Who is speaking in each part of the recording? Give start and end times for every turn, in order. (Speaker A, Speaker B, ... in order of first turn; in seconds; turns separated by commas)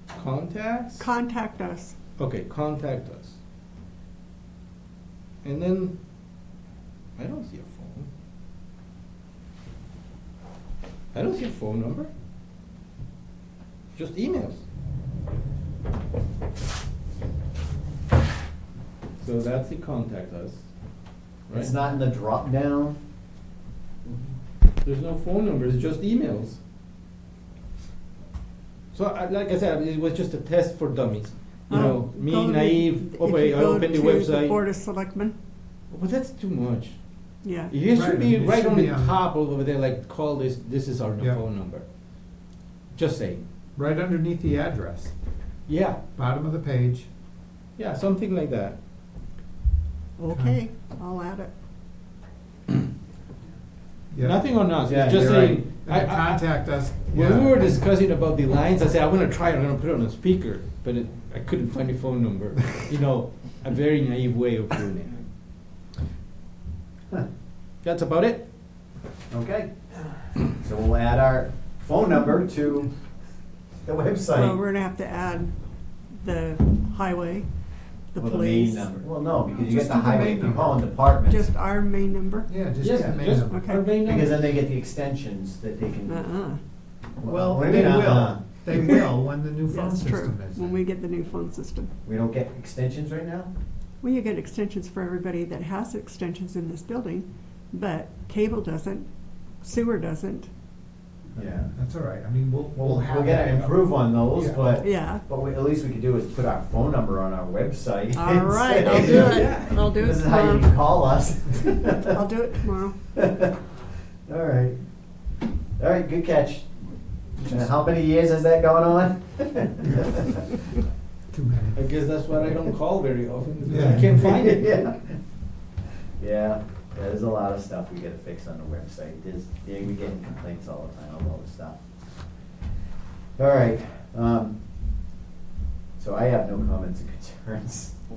Speaker A: 0.1-1.1, Speaker B: 1.0-1.9, Speaker A: 2.2-3.4, Speaker A: 5.4-6.0, Speaker A: 7.2-8.1, Speaker A: 11.1-12.1, Speaker A: 13.9-14.6, Speaker A: 19.2-20.7, Speaker A: 21.2-21.7, Speaker C: 21.5-23.0, Speaker A: 24.8-26.6, Speaker A: 28.9-34.6, Speaker B: 31.7-35.4, Speaker A: 35.9-42.4, Speaker B: 37.4-37.7, Speaker D: 37.9-39.2, Speaker A: 42.9-43.5, Speaker D: 43.8-45.2, Speaker A: 45.7-46.0, Speaker D: 46.1-47.1, Speaker A: 47.8-48.8, Speaker B: 50.2-51.5, Speaker D: 50.3-50.6, Speaker D: 54.1-57.8, Speaker A: 54.2-65.2, Speaker C: 54.9-55.6, Speaker A: 67.8-68.5, Speaker C: 69.3-69.7, Speaker C: 70.4-73.0, Speaker C: 73.8-74.6, Speaker B: 74.4-75.5, Speaker B: 76.2-77.5, Speaker B: 78.2-78.9, Speaker C: 78.2-81.5, Speaker D: 79.5-81.0, Speaker B: 81.3-82.5, Speaker D: 82.5-83.7, Speaker A: 82.8-84.5, Speaker C: 82.9-83.2, Speaker C: 83.9-86.2, Speaker B: 86.1-86.6, Speaker C: 87.2-89.0, Speaker D: 87.2-90.8, Speaker B: 89.7-91.9, Speaker C: 92.0-93.5, Speaker B: 94.0-99.1, Speaker B: 99.6-100.5, Speaker C: 101.3-101.7, Speaker D: 101.7-104.6, Speaker C: 102.8-112.1, Speaker B: 104.8-105.2, Speaker B: 108.1-110.7, Speaker A: 109.0-109.7, Speaker B: 112.1-112.9, Speaker C: 113.1-113.7, Speaker C: 114.3-115.0, Speaker C: 115.8-120.5, Speaker D: 117.4-117.7, Speaker D: 119.8-120.2, Speaker D: 121.3-121.8, Speaker A: 121.8-124.9, Speaker D: 123.6-124.3, Speaker C: 123.9-125.2, Speaker C: 126.2-131.8, Speaker C: 133.4-134.6, Speaker C: 136.0-138.0